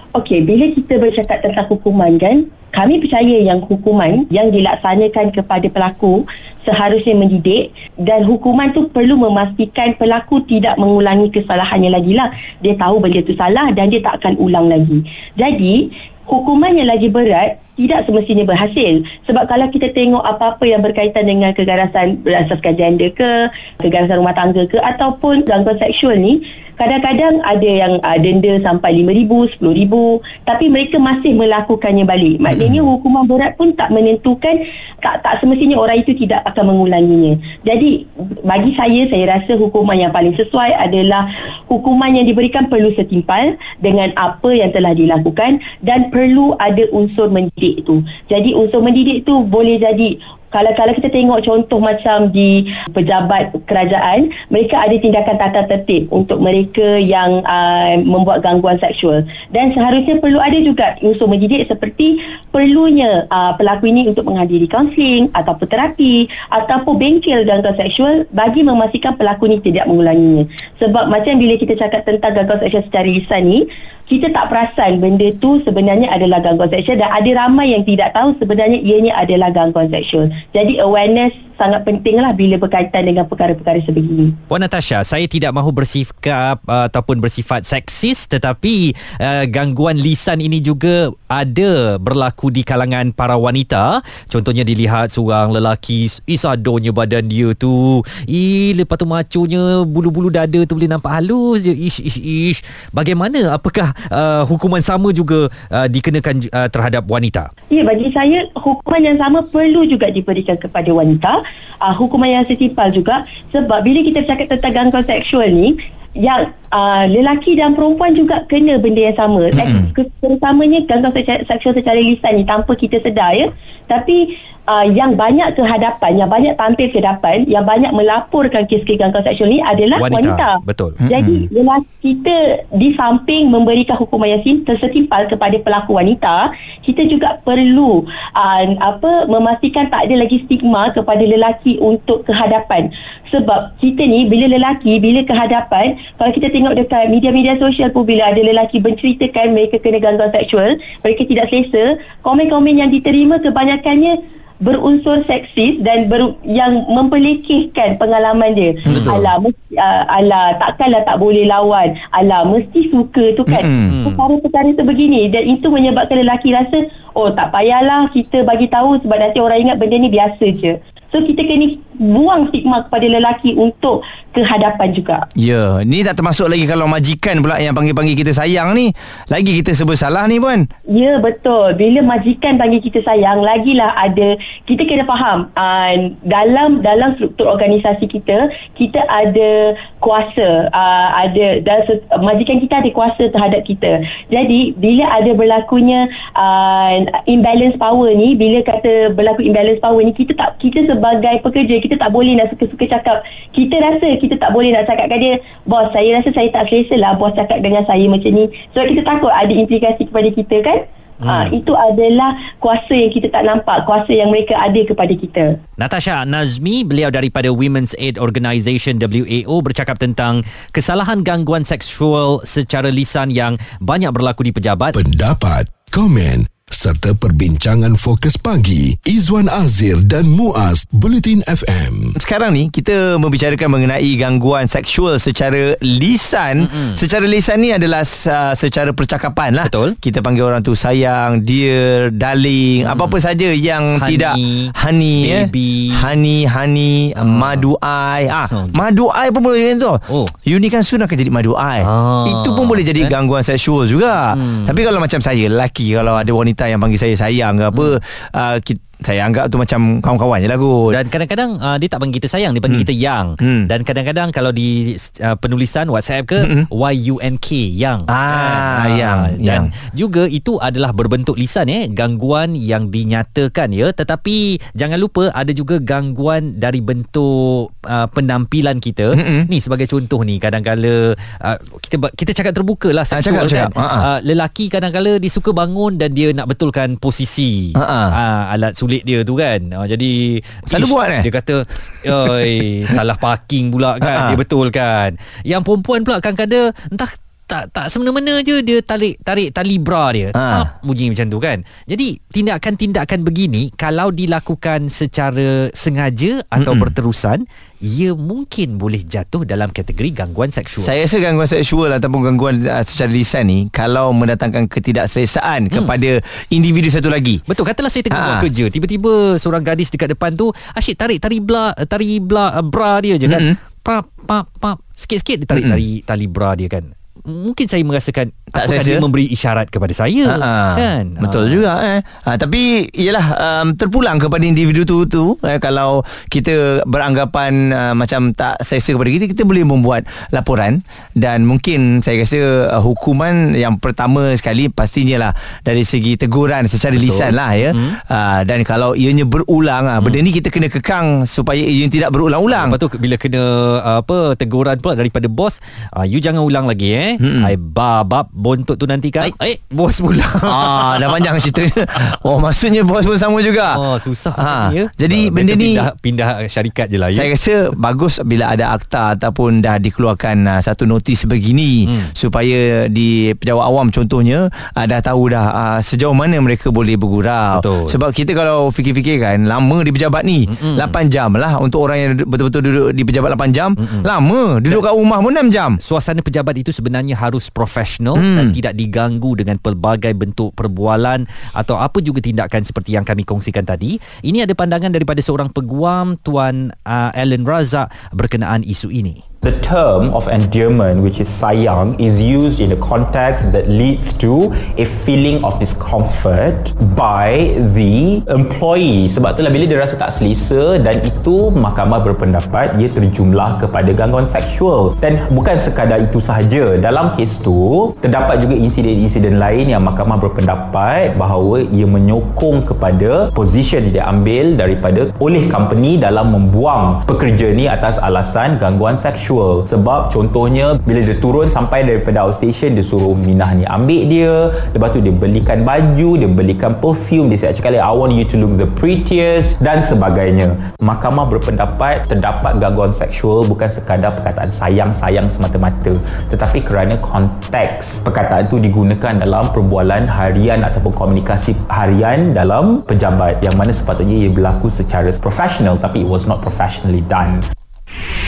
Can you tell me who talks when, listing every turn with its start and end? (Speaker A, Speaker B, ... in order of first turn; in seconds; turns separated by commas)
Speaker A: 0.1-84.4, Speaker B: 32.5-32.8, Speaker B: 84.5-107.5, Speaker A: 107.7-175.3, Speaker C: 119.6-119.9, Speaker B: 119.6-119.9, Speaker B: 130.0-131.0, Speaker C: 131.1-131.5, Speaker B: 158.9-159.3, Speaker C: 163.5-164.0, Speaker B: 163.9-164.2, Speaker C: 175.4-180.7, Speaker A: 180.9-215.6, Speaker B: 211.2-211.5, Speaker B: 215.8-224.9, Speaker D: 224.9-232.1, Speaker C: 232.2-261.0, Speaker B: 236.6-237.0, Speaker B: 239.6-240.0, Speaker B: 242.8-243.2, Speaker B: 244.0-246.1, Speaker B: 247.2-247.7, Speaker B: 248.5-248.8, Speaker B: 251.8-253.2, Speaker B: 254.3-254.8, Speaker B: 257.7-258.0, Speaker B: 260.9-310.9, Speaker C: 263.4-263.7, Speaker C: 266.4-266.7, Speaker C: 268.1-269.7, Speaker C: 279.1-279.5, Speaker C: 283.1-284.1, Speaker C: 287.8-288.1, Speaker C: 290.7-291.3, Speaker C: 292.1-292.4, Speaker C: 294.0-294.4, Speaker C: 300.4-300.7, Speaker C: 306.6-306.9, Speaker C: 310.8-317.4, Speaker B: 317.5-331.7, Speaker C: 318.1-318.5, Speaker C: 323.3-323.6, Speaker C: 325.5-325.8, Speaker C: 328.6-329.1, Speaker C: 330.2-352.8, Speaker B: 346.9-348.0, Speaker B: 352.5-361.5, Speaker C: 357.2-357.5, Speaker C: 360.5-363.8, Speaker B: 363.7-367.3, Speaker C: 364.4-365.9, Speaker C: 367.1-385.8, Speaker B: 371.9-372.1, Speaker B: 377.5-378.0, Speaker B: 380.5-381.0, Speaker B: 383.8-384.1, Speaker B: 385.8-399.2, Speaker C: 388.2-388.6, Speaker E: 399.4-457.4